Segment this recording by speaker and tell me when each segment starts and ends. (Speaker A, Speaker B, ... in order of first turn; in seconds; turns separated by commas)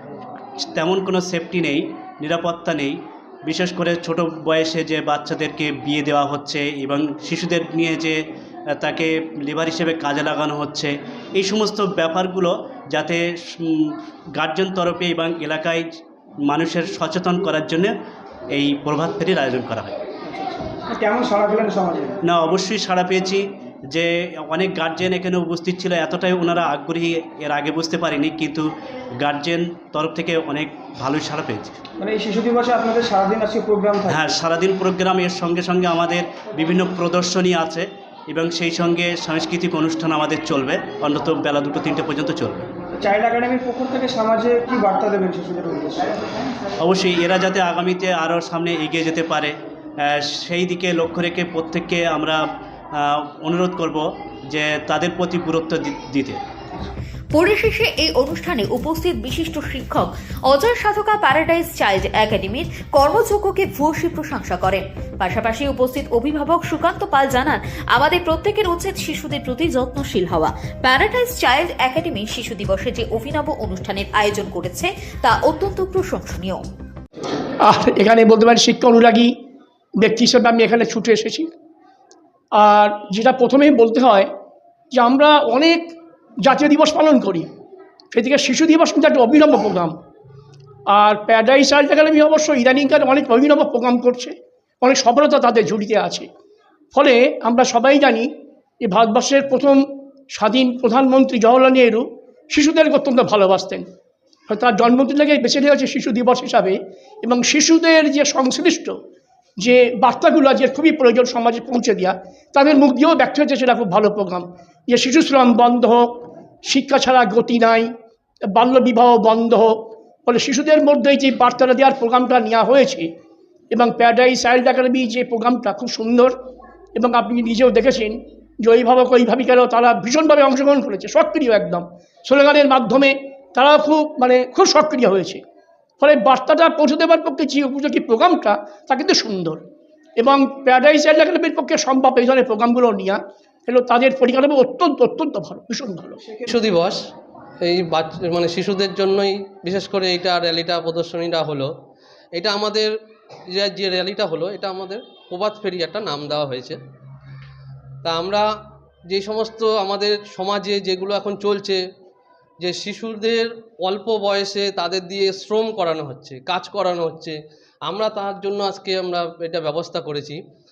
Speaker A: 0.7-8.2, Speaker A: 8.8-15.8, Speaker A: 16.4-17.9, Speaker A: 18.5-19.9, Speaker B: 20.3-22.2, Speaker A: 22.2-31.8, Speaker B: 32.0-34.3, Speaker A: 34.1-42.6, Speaker B: 43.0-46.5, Speaker A: 46.8-52.4, Speaker A: 52.9-56.4, Speaker C: 57.3-76.6, Speaker D: 77.6-79.3, Speaker D: 80.0-81.5, Speaker D: 82.5-84.3, Speaker D: 84.9-85.9, Speaker D: 86.4-87.5, Speaker D: 88.1-89.9, Speaker D: 90.9-96.3, Speaker D: 96.9-98.3, Speaker D: 98.8-103.8, Speaker D: 104.5-109.0, Speaker D: 109.6-117.9, Speaker D: 118.4-123.1, Speaker D: 123.7-126.3, Speaker D: 126.9-135.4, Speaker D: 136.0-139.6, Speaker D: 140.2-146.2, Speaker E: 146.5-147.0, Speaker E: 147.6-151.7, Speaker E: 152.3-152.9, Speaker E: 153.5-156.8, Speaker E: 158.0-158.4, Speaker E: 159.1-161.8, Speaker E: 162.6-170.4